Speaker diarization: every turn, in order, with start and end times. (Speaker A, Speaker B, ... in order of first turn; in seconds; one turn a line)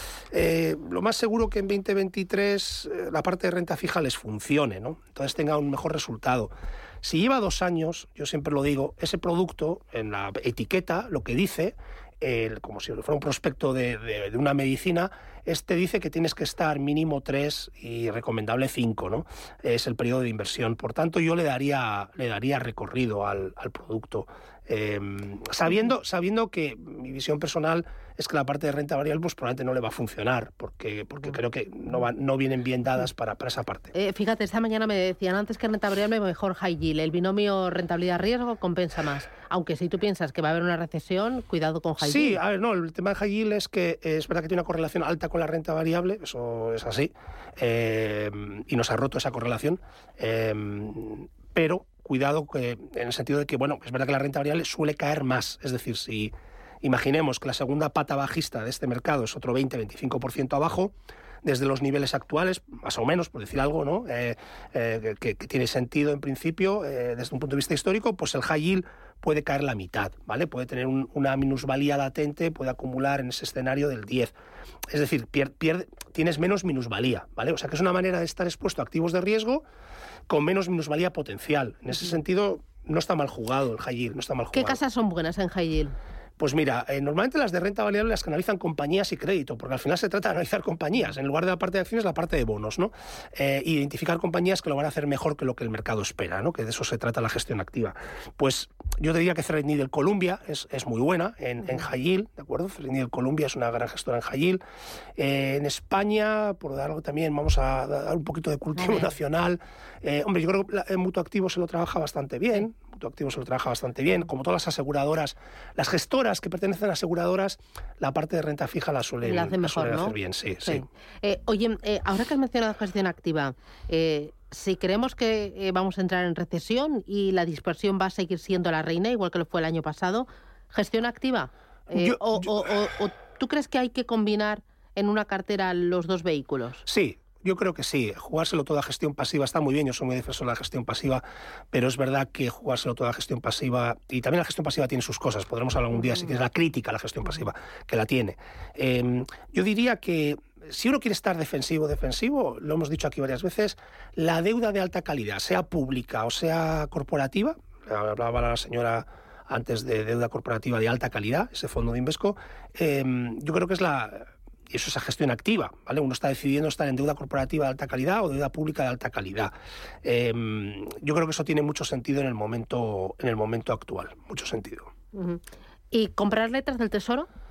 Speaker A: 0.3-33.9
Speaker B: 33.9-42.4
Speaker A: 42.0-74.3
Speaker A: 74.9-79.6
Speaker A: 80.3-84.8
Speaker B: 84.5-85.9
Speaker A: 86.4-104.6
Speaker A: 105.2-120.8
Speaker B: 108.8-109.1
Speaker B: 119.2-136.8
Speaker A: 131.9-132.5
Speaker A: 136.9-174.9
Speaker B: 175.1-177.3